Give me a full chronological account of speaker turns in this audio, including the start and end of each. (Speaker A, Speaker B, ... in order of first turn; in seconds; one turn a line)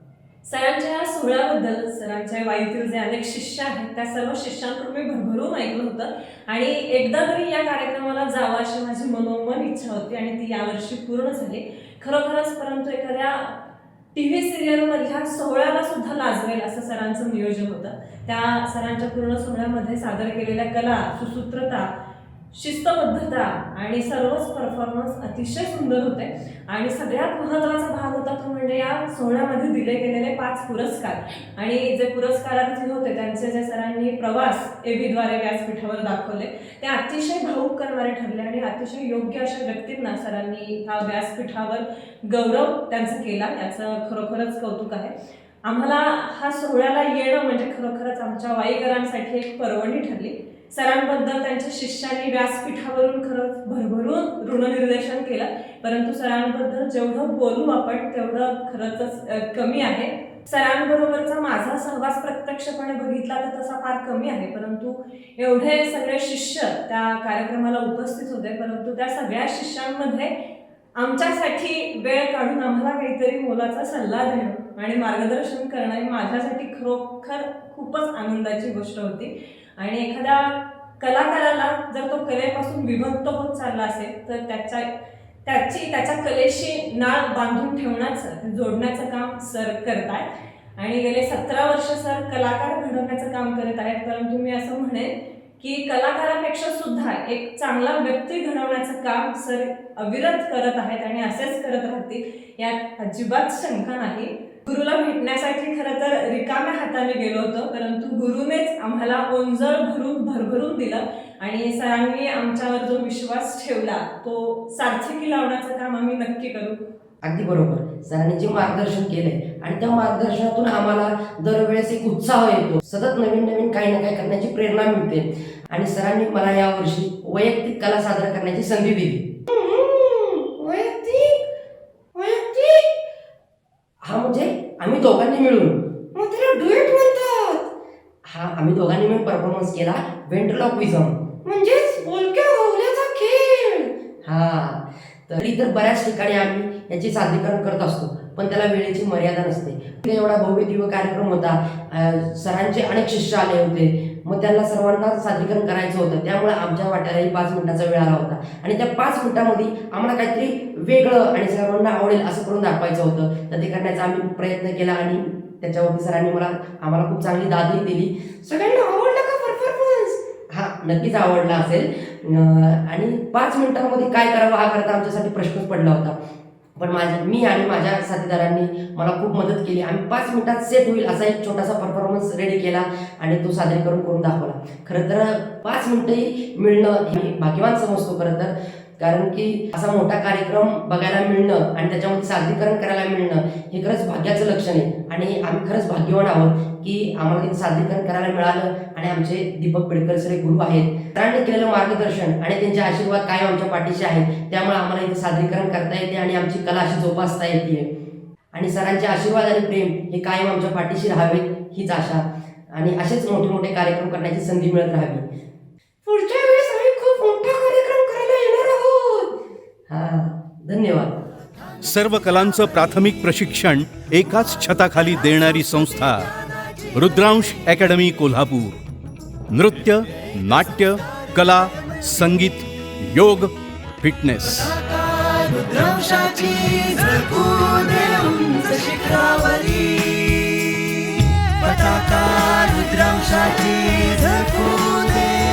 Speaker A: 0.4-13.6
Speaker A: 14.1-21.9
Speaker A: 22.5-70.3
Speaker A: 71.0-84.8
Speaker A: 85.4-90.2
Speaker A: 90.8-116.8
Speaker B: 117.2-131.4
Speaker B: 132.2-132.8
Speaker B: 134.0-136.4
Speaker C: 136.4-137.5
Speaker B: 138.2-142.3
Speaker C: 142.3-143.8
Speaker B: 144.2-176.1
Speaker B: 176.8-207.9
Speaker B: 208.5-215.2
Speaker B: 216.0-218.8
Speaker B: 219.9-221.2
Speaker D: 221.8-226.3
Speaker D: 226.9-228.7
Speaker D: 229.5-234.8
Speaker E: 235.4-240.1
Speaker E: 241.8-242.1
Speaker B: 242.8-243.2
Speaker E: 243.1-243.7
Speaker E: 244.4-244.8